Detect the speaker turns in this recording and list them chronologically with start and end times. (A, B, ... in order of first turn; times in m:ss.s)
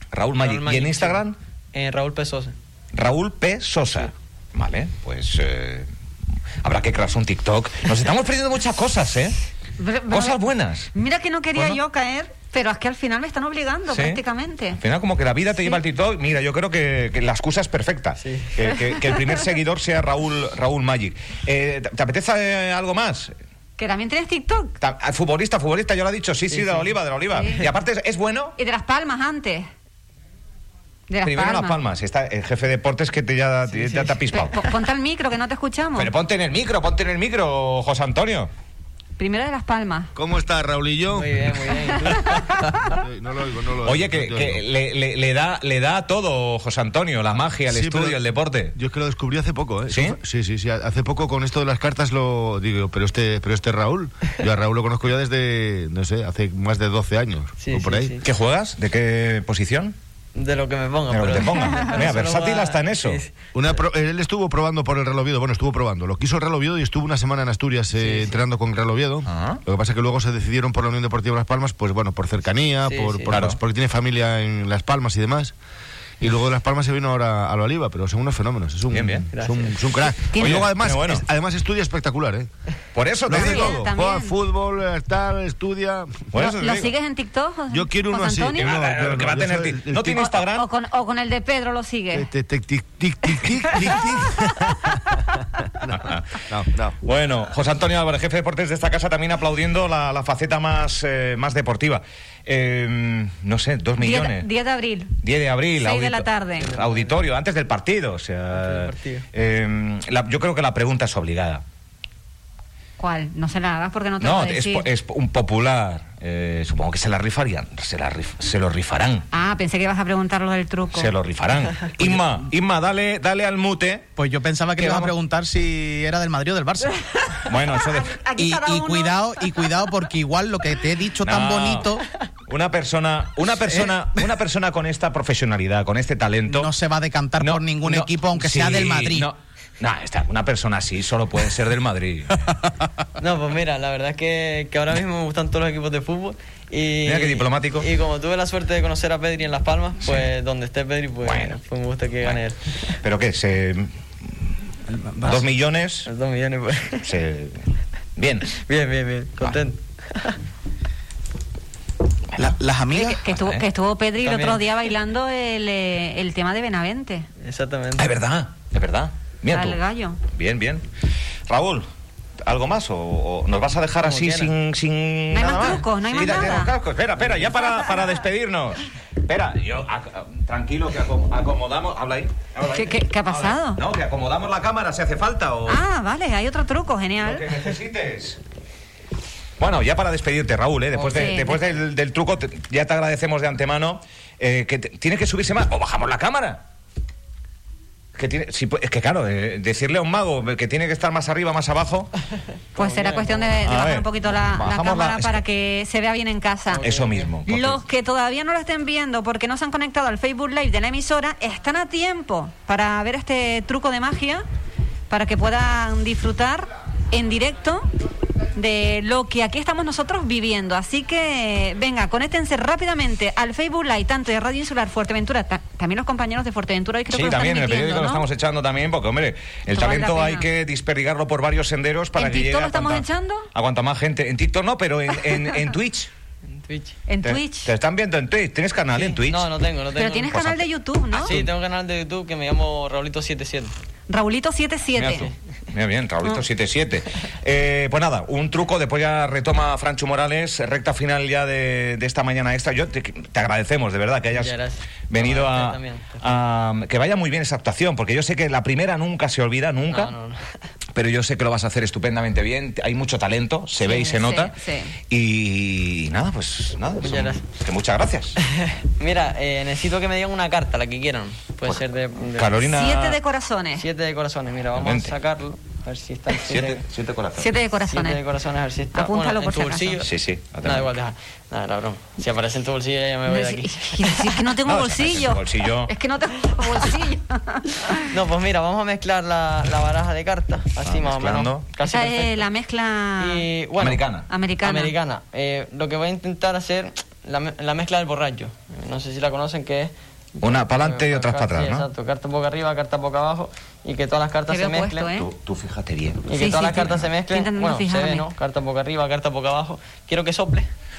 0:00.1-0:01.4 A
0:00.4-0:02.5 B
0:02.9-0:05.9 A
0:06.6-0:09.4 A
0:09.8-0:10.4 C
0:10.1-0:10.9 A
0:10.9-0:14.8 C
0:11.6-0:11.8 A
0:13.9-0:14.2 A
0:14.8-0:23.3 A
0:18.2-0:18.8 B
0:23.8-0:24.8 C
0:24.8-0:28.6 A
0:26.5-0:26.9 B
0:27.3-0:27.6 C
0:28.6-0:29.7 C
0:31.1-0:31.8 C
0:31.2-0:34.7 A
0:33.7-0:34.2 B
0:34.3-0:36.1 C
0:36.0-0:38.5 A
0:39.2-0:40.1 C
0:40.2-0:44.6 D
0:41.1-0:42.4 B
0:43.8-0:48.7 A
0:47.7-0:48.2 D
0:48.8-0:58.2 D
0:49.9-0:50.2 A
0:57.6-0:58.3 B
0:58.2-1:00.0 A
1:00.4-1:03.8 B
1:01.1-1:03.2 A
1:01.5-1:02.0 C
1:03.5-1:15.6 D
1:08.0-1:08.4 B
1:09.3-1:09.6 A
1:12.8-1:13.4 B
1:13.3-1:13.6 A
1:16.2-1:22.5 D
1:18.9-1:19.3 A
1:19.3-1:19.9 B
1:20.3-1:20.7 C
1:20.4-1:21.2 A
1:23.0-1:23.8 A
1:23.3-1:26.8 D
1:23.3-1:24.4 C
1:26.3-1:26.9 A
1:26.4-1:28.7 C
1:27.7-1:30.2 D
1:28.6-1:30.7 A
1:30.1-1:32.3 C
1:32.1-1:35.2 D
1:35.8-1:37.0 D
1:35.9-1:36.4 A
1:37.0-1:44.5 A
1:44.0-1:45.2 C
1:45.2-1:51.6 A
1:45.8-1:46.7 C
1:46.6-1:47.2 B
1:48.5-1:49.3 B
1:53.0-1:54.9 C
1:54.2-1:59.3 A
1:59.3-2:01.1 C
2:00.9-2:04.1 A
2:04.2-2:07.1 E
2:04.8-2:05.1 A
2:07.3-2:09.8 C
2:07.5-2:08.2 A
2:08.4-2:12.1 E
2:11.2-2:16.7 A
2:16.5-2:19.3 E
2:17.4-2:22.5 A
2:23.2-2:33.0 B
2:27.0-2:27.9 A
2:31.2-2:31.6 A
2:33.0-2:34.4 A
2:34.9-2:35.4 E
2:35.2-2:36.1 A
2:36.1-2:37.1 B
2:37.0-2:37.6 A
2:38.2-2:38.5 A
2:38.5-2:40.4 B
2:42.4-2:43.2 E
2:42.9-2:47.3 C
2:43.3-2:43.6 A
2:44.2-2:44.6 B
2:47.4-2:48.1 B
2:48.0-2:50.8 A
2:49.5-2:50.2 C
2:51.5-2:51.9 A
2:52.4-3:05.8 A
2:54.0-2:54.5 B
2:55.3-2:56.7 C
2:56.0-2:56.6 B
2:57.4-2:58.2 C
3:02.6-3:03.8 C
3:05.7-3:07.5 C
3:07.2-3:08.4 A
3:09.6-3:16.6 A
3:11.0-3:11.6 C
3:18.2-3:22.1 A
3:22.7-3:23.6 B
3:22.8-3:26.8 C
3:23.6-3:25.4 A
3:26.7-3:27.3 B
3:26.8-3:27.8 A
3:27.5-3:34.4 C
3:35.1-3:37.9 C
3:38.5-3:48.2 C
3:47.1-3:56.1 A
3:49.7-3:50.4 C
3:52.2-3:53.5 C
3:56.6-3:57.0 B
3:57.1-3:57.7 C
3:57.2-3:59.5 A
3:59.0-4:00.4 B
4:00.0-4:01.4 C
4:00.3-4:01.5 A
4:01.2-4:03.7 B
4:04.1-4:05.3 C
4:05.0-4:14.5 A
4:14.3-4:16.3 B
4:15.1-4:20.1 A
4:19.9-4:20.5 B
4:21.0-4:24.6 A
4:23.8-4:24.9 C
4:25.1-4:28.4 A
4:27.0-4:27.4 B
4:28.4-4:32.6 B
4:32.4-4:33.2 A
4:32.6-4:33.8 C
4:33.8-4:36.8 B
4:34.8-4:35.1 A
4:36.4-4:37.5 A
4:37.4-4:38.2 C
4:37.9-4:40.1 B
4:38.9-4:40.1 C
4:40.0-4:41.0 A
4:40.6-4:44.3 B
4:43.3-4:48.1 C
4:44.5-4:45.9 A
4:48.0-4:52.4 B
4:50.8-4:51.7 A
4:51.8-4:53.4 C
4:53.2-4:54.0 B
4:53.8-4:54.3 A
4:54.3-4:54.9 C
4:54.6-5:05.1 B
5:00.4-5:01.9 A
5:04.5-5:05.3 C
5:05.1-5:07.0 A
5:06.3-5:10.7 B
5:06.4-5:08.3 C